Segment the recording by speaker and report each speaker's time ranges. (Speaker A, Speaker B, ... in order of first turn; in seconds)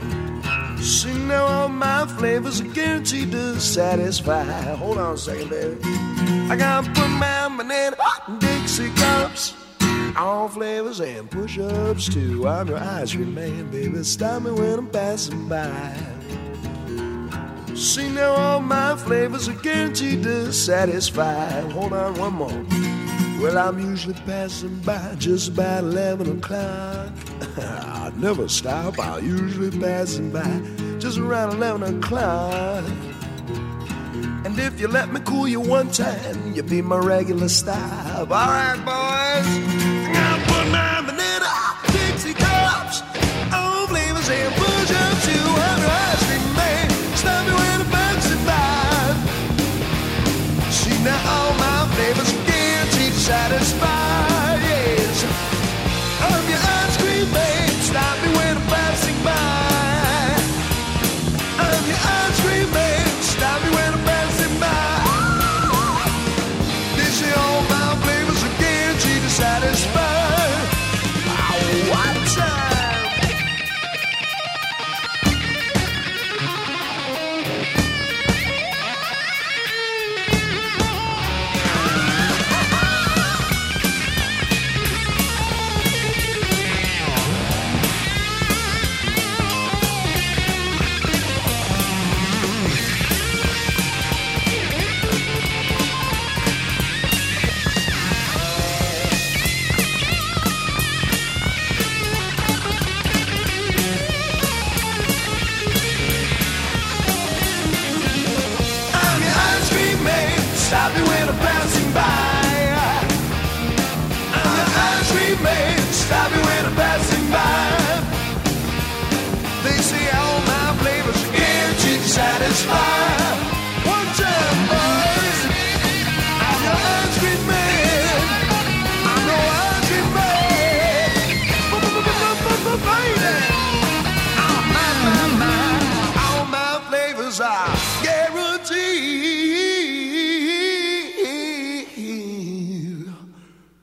Speaker A: 0.8-5.9, 6.5-9.6, 10.1-16.2, 17.7-22.8, 23.3-33.0, 34.4-49.3, 50.7-55.3, 56.2-60.5, 61.6-65.7, 66.9-73.2, 108.9-113.1, 114.3-118.1, 119.6-128.5, 129.0-133.8, 134.4-143.1